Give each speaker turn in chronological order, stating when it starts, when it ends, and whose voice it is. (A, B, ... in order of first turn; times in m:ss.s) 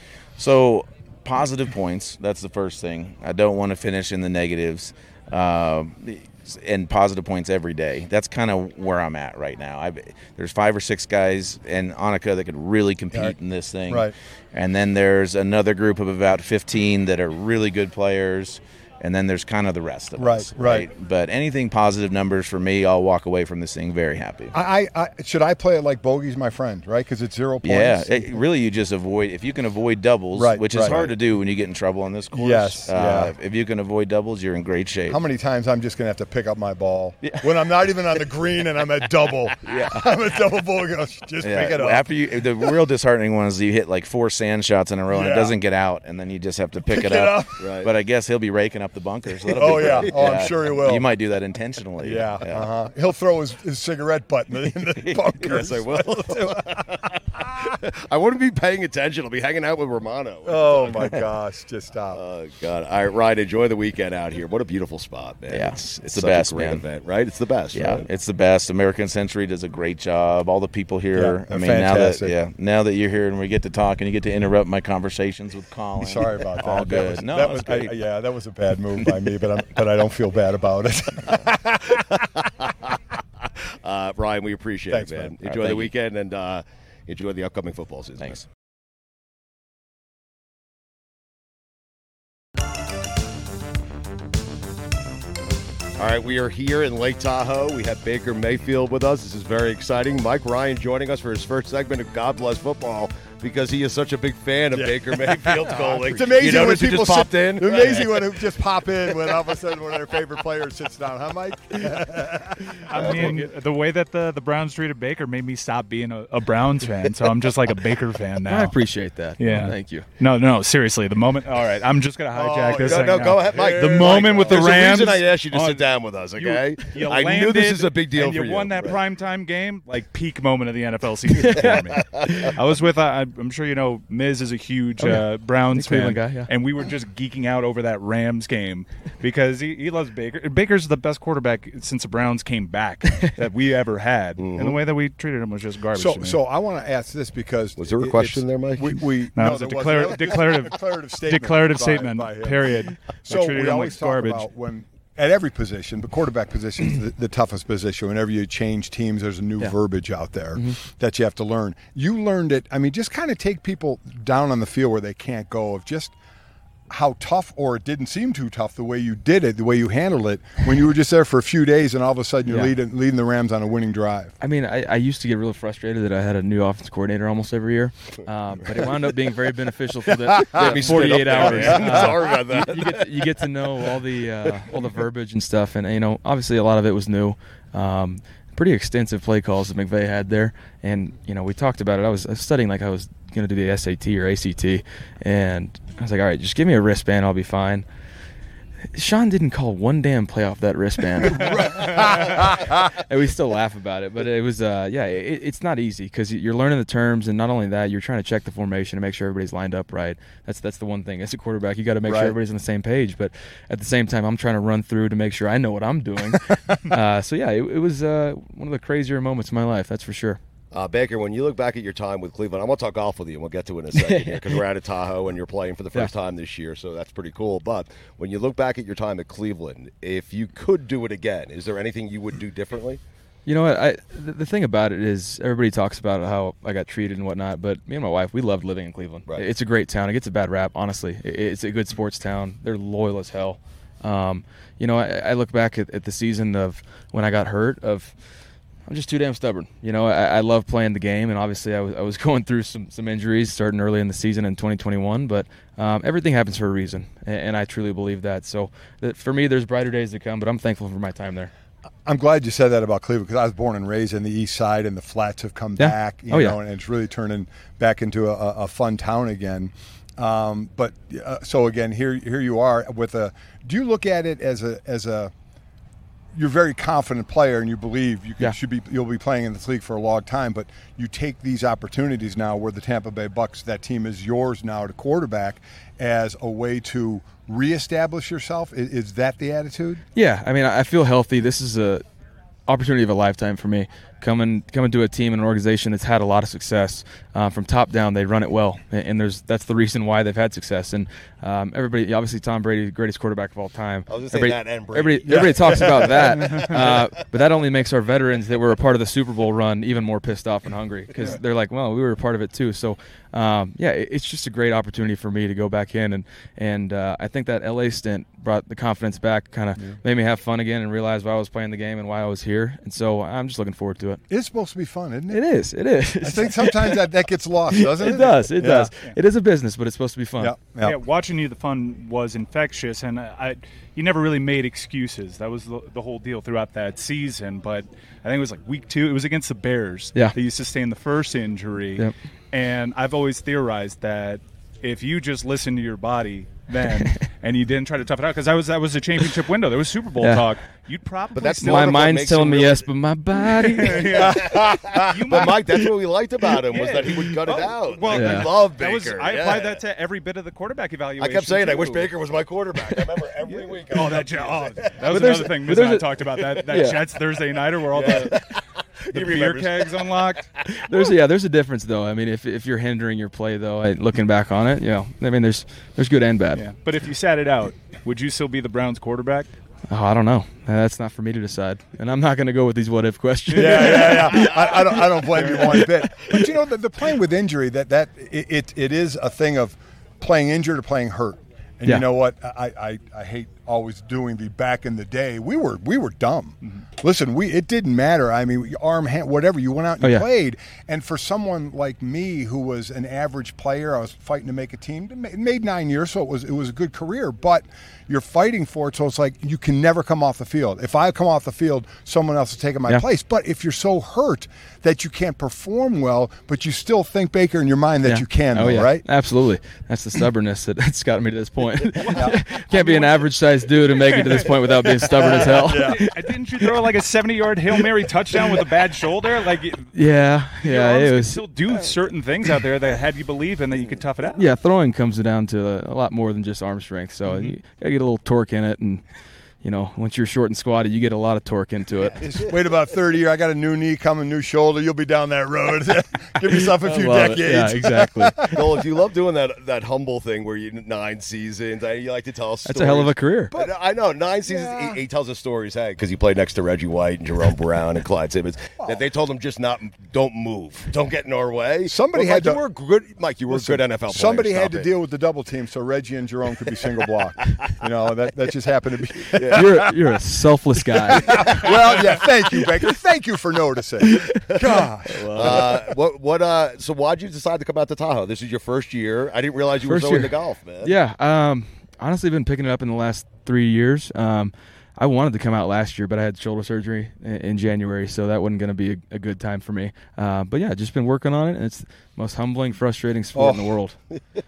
0:00.4-0:24.5 A
0:20.2-0:20.9 B
0:24.5-0:28.4 B
0:27.6-0:35.2 A
0:30.3-0:31.1 B
0:32.3-0:33.3 B
0:35.1-0:42.1 B
0:39.7-0:39.9 A
0:41.4-0:52.7 A
0:45.1-0:45.6 B
0:46.9-0:47.6 B
0:47.6-0:47.9 C
0:49.5-0:50.5 C
0:49.5-0:51.1 B
0:52.0-0:57.5 B
0:54.8-0:55.3 A
0:55.4-1:01.2 C
1:00.5-1:02.2 B
1:02.1-1:08.1 C
1:05.5-1:06.8 A
1:07.7-1:18.0 A
1:11.1-1:12.3 B
1:16.0-1:22.0 B
1:23.8-1:28.4 C
1:24.9-1:25.3 B
1:25.4-1:25.9 A
1:36.0-1:48.4 C
1:44.7-1:53.4 B
1:52.9-1:58.8 D
1:53.0-1:53.3 C
1:58.4-2:00.1 E
1:59.4-2:26.4 D
2:02.3-2:09.0 C
2:02.9-2:04.6 B
2:11.3-2:12.5 E
2:11.6-2:12.5 C
2:15.0-2:16.5 E
2:24.4-2:24.8 C
2:26.0-2:46.1 B
2:27.8-2:29.1 C
2:29.4-2:34.5 D
2:46.9-2:54.3 B
2:52.5-2:52.8 E
2:54.4-3:17.8 E
2:58.7-2:59.1 C
3:00.1-3:00.8 B
3:00.4-3:03.8 C
3:04.5-3:04.8 C
3:18.9-3:40.4 E
3:21.3-3:22.6 B
3:32.0-3:32.4 B
3:40.7-3:53.0 C
3:43.9-3:44.6 E
3:53.5-4:08.2 E
4:08.9-4:21.5 E
4:22.1-4:35.3 B
4:25.8-4:26.6 E
4:36.3-4:50.0 B
4:50.2-4:52.0 E
4:52.7-5:24.2 E
5:04.1-5:07.3 C
5:05.3-5:05.6 B
5:24.3-5:25.4 B
5:25.3-5:27.1 E
5:26.2-5:28.9 B
5:27.7-5:30.7 E
5:30.4-5:31.0 B
5:30.8-5:52.1 D
5:50.2-5:50.5 E
5:51.3-5:52.9 C
5:51.6-5:54.2 E
5:53.6-5:55.6 D
5:53.9-5:59.8 C
5:54.4-5:55.1 B
5:56.7-6:02.1 D
5:58.1-5:58.5 E
6:01.2-6:05.5 C
6:03.5-6:08.4 D
6:05.1-6:07.1 E
6:07.9-6:10.2 C
6:09.1-6:10.5 D
6:10.7-6:16.7 E
6:16.5-6:19.5 D
6:19.9-6:24.7 E
6:23.5-6:59.0 B
6:31.8-6:32.1 E
6:40.0-6:40.3 E
6:58.0-7:06.9 E
7:01.9-7:09.9 D
7:05.7-7:06.0 B
7:09.9-7:12.0 E
7:10.6-7:14.5 D
7:14.3-7:19.0 E
7:19.6-7:22.3 E
7:22.2-7:28.6 B
7:26.4-7:28.8 E
7:28.5-7:44.9 C
7:32.6-7:33.5 E
7:34.5-7:35.0 B
7:41.9-7:42.6 B
7:43.5-7:49.8 B
7:49.3-7:49.7 C
7:49.5-7:52.0 E
7:51.1-7:55.8 B
7:54.0-7:55.8 E
7:55.3-8:01.0 C
7:59.8-8:14.0 E
8:13.4-8:13.7 B